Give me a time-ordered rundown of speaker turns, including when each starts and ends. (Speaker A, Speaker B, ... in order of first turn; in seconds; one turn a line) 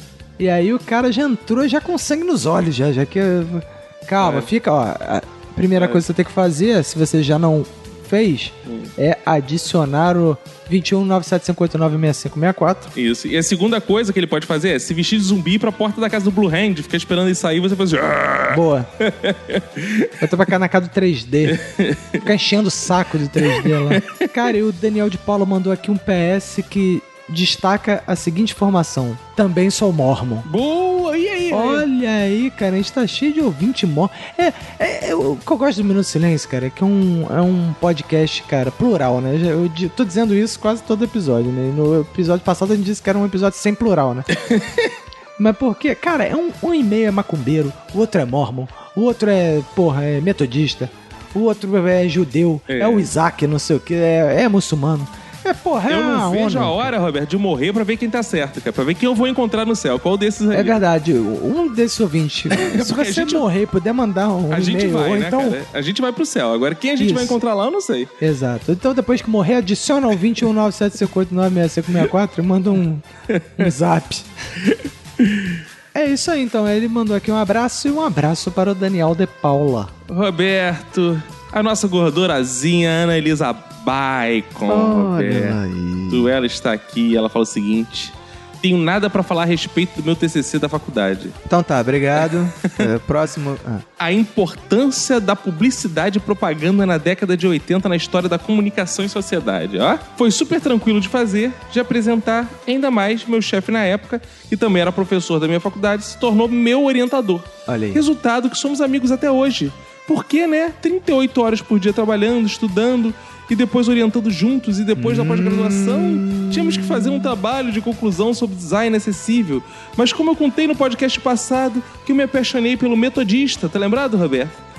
Speaker A: 0.4-12.9
Speaker B: 4.2-4.5
Speaker B: 5.8-6.0
Speaker B: 8.7-8.9
Speaker B: 12.9-20.4
Speaker A: 18.5-18.9
Speaker A: 20.2-21.6
Speaker B: 21.5-22.3
Speaker A: 22.2-30.4
Speaker B: 23.3-24.5
Speaker B: 30.4-31.9
Speaker A: 31.5-44.3
Speaker B: 44.5-44.9
Speaker A: 45.4-56.8
Speaker B: 52.7-53.1
Speaker B: 55.9-60.8
Speaker A: 60.5-65.6
Speaker B: 62.5-63.5
Speaker B: 64.5-68.1
Speaker A: 67.0-67.4
Speaker A: 68.2-73.0
Speaker B: 73.3-73.7
Speaker A: 73.6-74.3
Speaker B: 74.7-75.6
Speaker A: 75.9-79.9
Speaker B: 80.1-85.6
Speaker A: 84.7-86.3
Speaker B: 86.1-91.3
Speaker A: 91.5-93.8
Speaker B: 94.0-124.6
Speaker A: 107.7-108.0
Speaker A: 115.0-117.3